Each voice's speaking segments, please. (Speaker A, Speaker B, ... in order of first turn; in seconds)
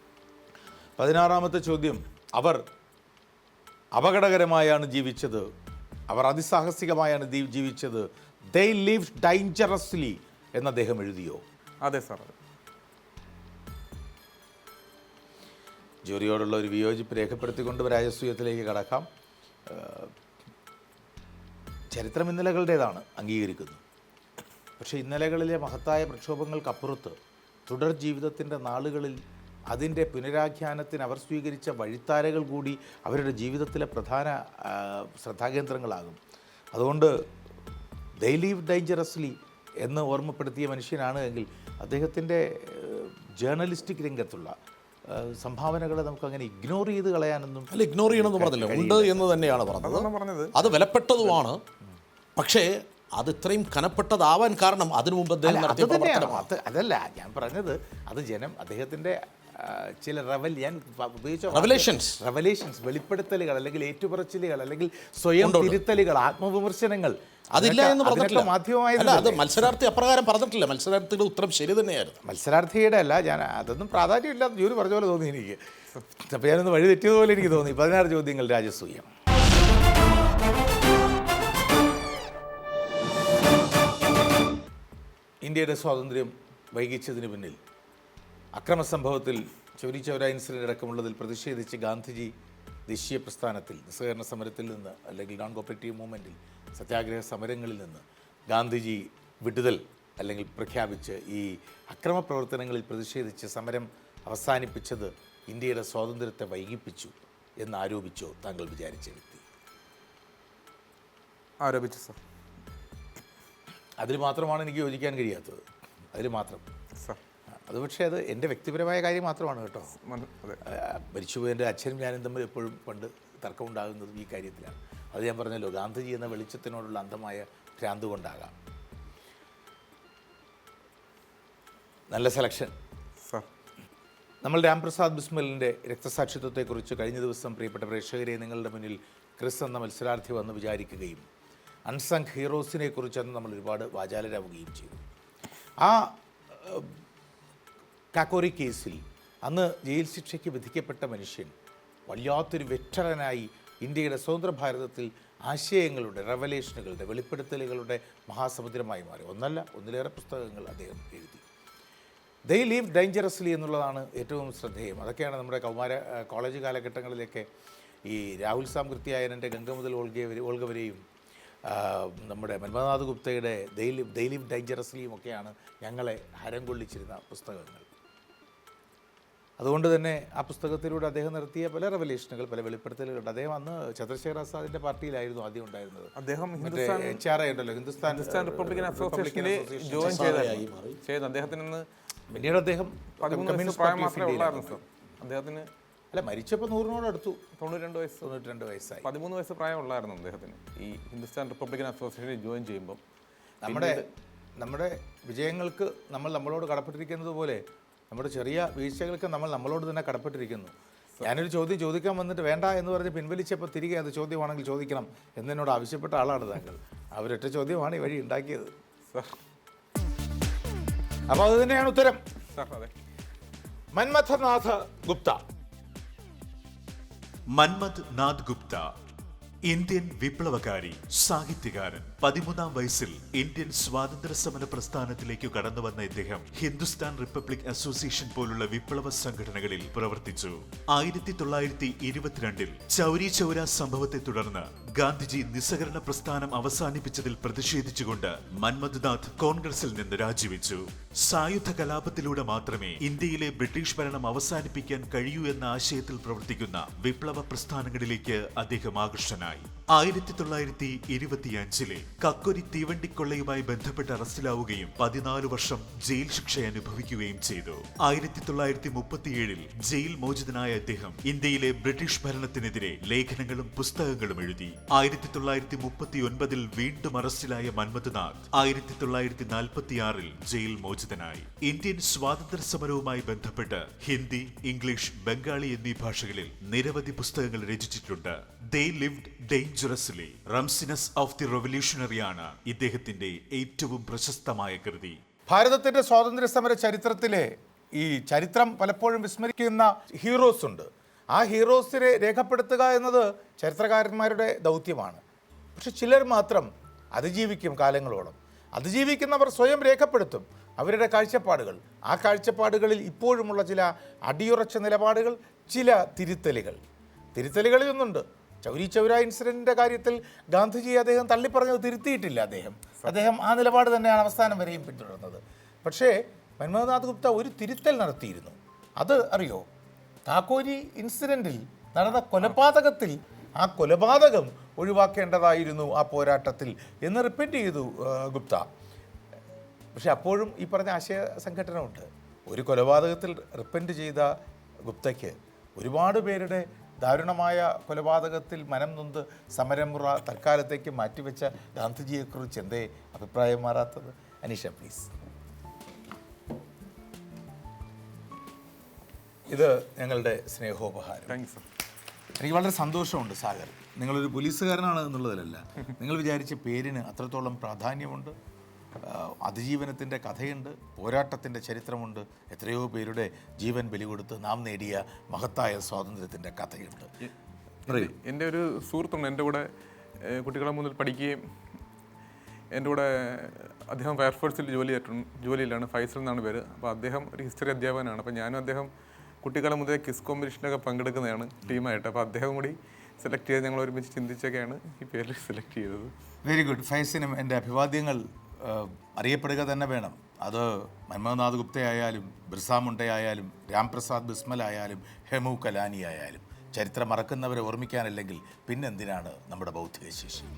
Speaker A: 1.0-2.6, 4.0-5.5, 6.1-11.4, 16.1-19.1, 19.7-20.1, 21.9-23.8, 24.8-27.2, 27.7-29.2, 29.7-36.2, 36.7-37.1, 38.2-44.5, 45.1-49.3, 55.4-69.6, 72.2-79.1, 85.4-87.6, 88.5-92.3, 92.9-109.4, 114.0-115.6, 116.1-116.6, 117.7-120.0, 120.6-128.6, 132.1-132.7, 134.4-141.2, 141.9-145.0, 145.8-146.9, 148.1-151.5, 152.1-161.4, 162.5-167.5, 168.1-171.0, 171.7-177.9, 179.6-190.4, 192.3-194.8, 196.1-197.4, 198.2-199.1, 203.6-204.1, 204.6-218.7, 221.3-222.2, 223.9-225.4, 295.5-305.2, 305.8-316.8, 317.4-329.6, 330.3-338.7, 339.9-344.3, 344.9-355.1, 359.5-361.4, 362.4-368.4, 369.0-377.1, 377.9-378.1, 396.4-410.5
Speaker B: 11.8-12.3, 49.8-50.5, 111.6-112.2, 120.0-120.6, 186.2-187.2, 188.0-191.8, 193.2-195.7, 197.6-198.2, 199.0-203.0, 203.7-204.1, 222.5-222.9, 361.3-361.6, 377.9-379.7, 380.2-381.4, 382.7-388.9, 389.4-396.1
Speaker C: 47.7-51.6, 52.4-56.5, 61.5-62.2, 65.4-65.8, 67.5-72.2, 190.0-191.0
Speaker D: 227.5-228.9, 229.7-295.2